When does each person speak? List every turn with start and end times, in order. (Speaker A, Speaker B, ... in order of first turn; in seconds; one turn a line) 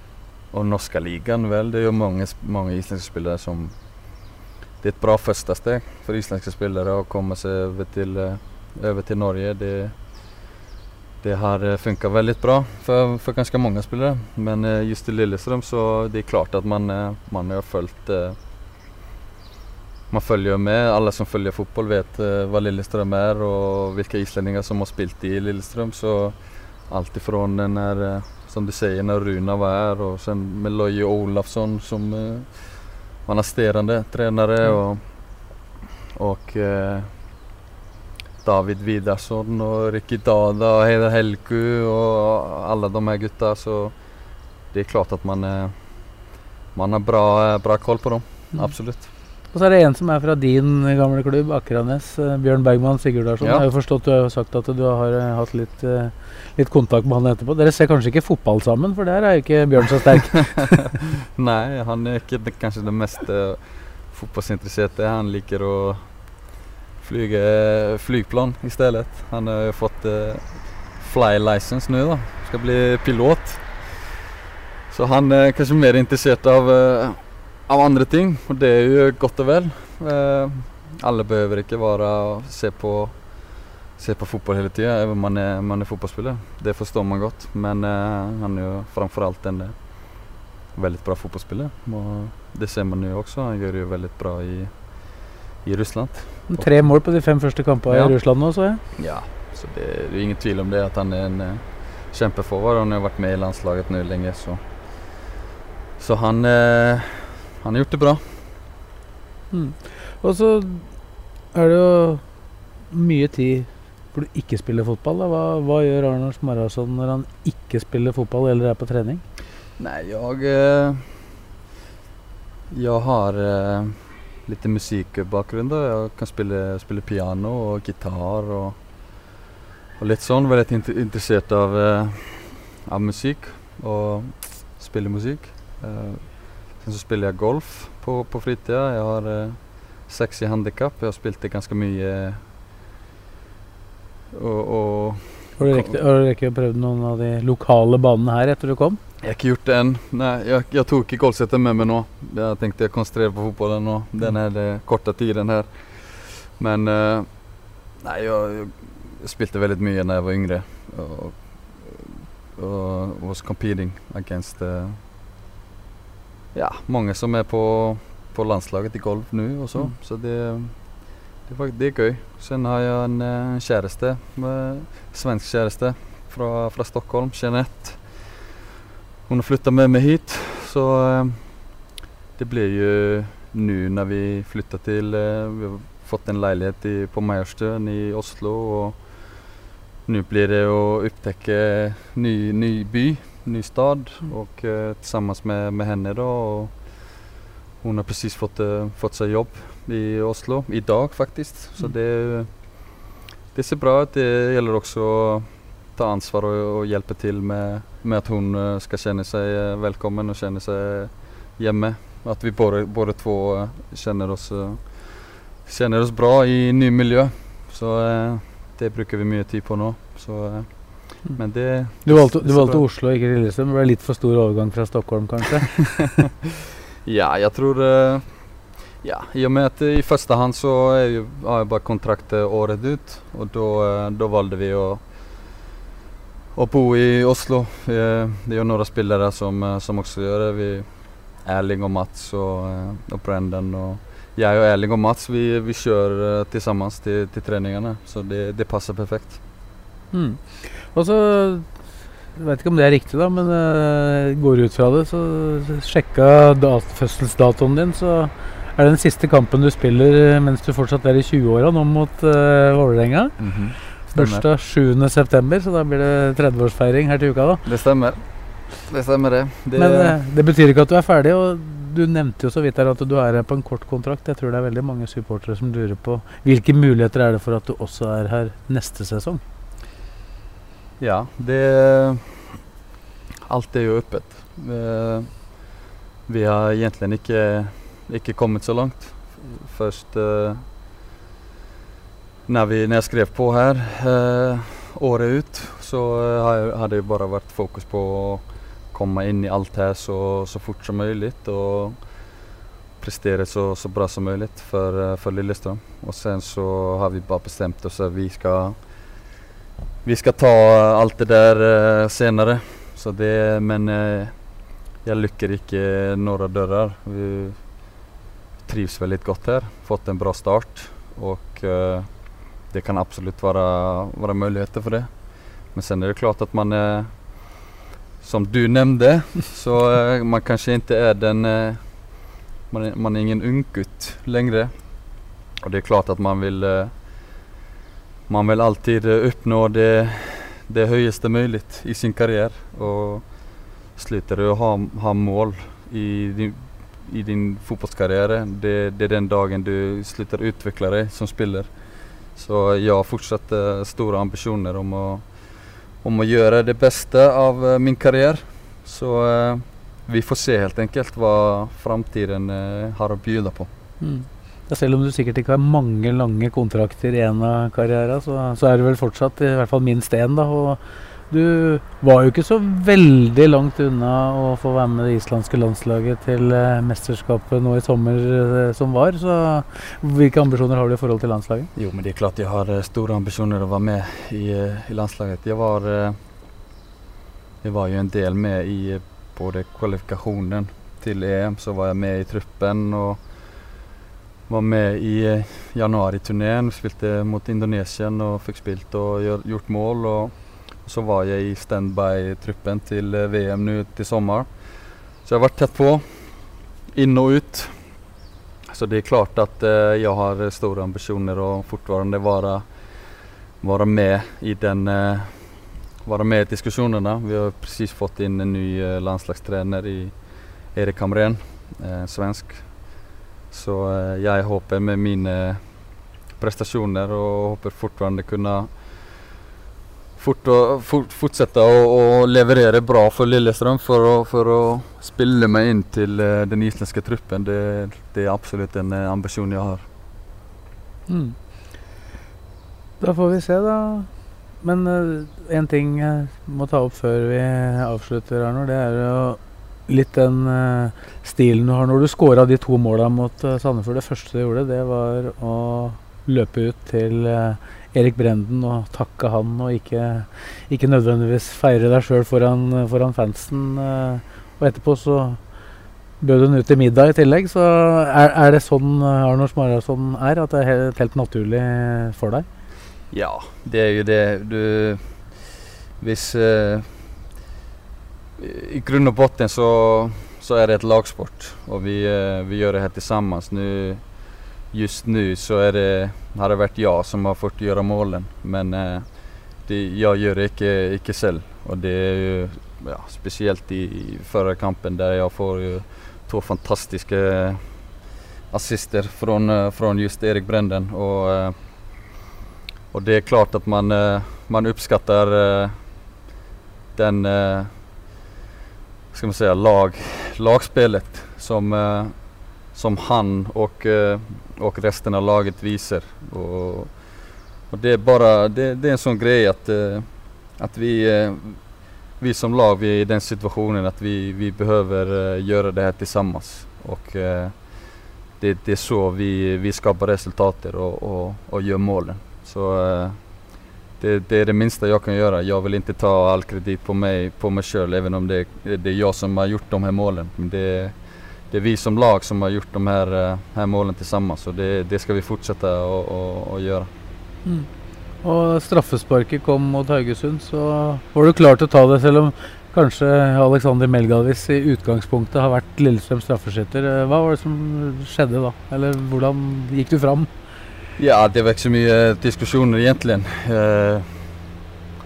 Speaker A: 0.5-10.1
Speaker A: 11.2-18.4
Speaker A: 20.1-35.3
Speaker A: 36.1-37.1
Speaker A: 38.4-44.1
Speaker A: 44.7-45.8
Speaker A: 46.7-49.1
Speaker B: 49.5-60.7
Speaker A: 60.6-74.1
Speaker A: 74.9-97.0
Speaker B: 96.5-98.8
Speaker A: 97.9-98.2
Speaker A: 98.9-105.3
Speaker A: 106.0-108.5
Speaker B: 109.5-110.9
Speaker B: 111.5-112.3
Speaker B: 112.9-119.2
Speaker A: 119.8-121.2
Speaker A: 122.7-128.8
Speaker A: 130.0-142.4
Speaker A: 144.3-146.0
Speaker B: 145.6-149.0
Speaker A: 149.2-165.0
Speaker A: 166.5-178.4
Speaker A: 179.3-181.8
Speaker A: 182.4-189.2
Speaker A: 190.1-197.0
Speaker A: 197.8-203.0
Speaker A: 203.5-222.8
Speaker B: 221.9-226.0
Speaker A: 227.0-235.5
Speaker A: 236.5-249.4
Speaker B: 250.1-251.8
Speaker B: 252.3-267.7
Speaker A: 263.4-264.5
Speaker A: 267.6-270.2
Speaker B: 269.8-279.4
Speaker A: 281.0-282.6
Speaker A: 283.5-285.7
Speaker A: 286.3-290.6
Speaker A: 292.5-302.4
Speaker A: 303.0-309.2
Speaker A: 310.0-318.0
Speaker A: 318.6-327.6
Speaker A: 328.2-337.4
Speaker A: 338.3-351.7
Speaker A: 352.3-363.7
Speaker B: 364.0-381.7
Speaker A: 381.8-386.2
Speaker A: 387.6-393.5
Speaker A: 394.5-407.9
Speaker A: 408.7-428.9
Speaker A: 430.2-439.9
Speaker B: 441.1-441.4
Speaker B: 443.0-465.4
Speaker B: 466.2-472.5
Speaker A: 473.1-477.2
Speaker A: 478.4-497.9
Speaker A: 498.5-501.6
Speaker A: 502.9-505.8
Speaker A: 506.9-507.8
Speaker A: 509.1-533.5
Speaker A: 534.0-546.9
Speaker B: 548.2-560.3
Speaker A: 561.0-564.3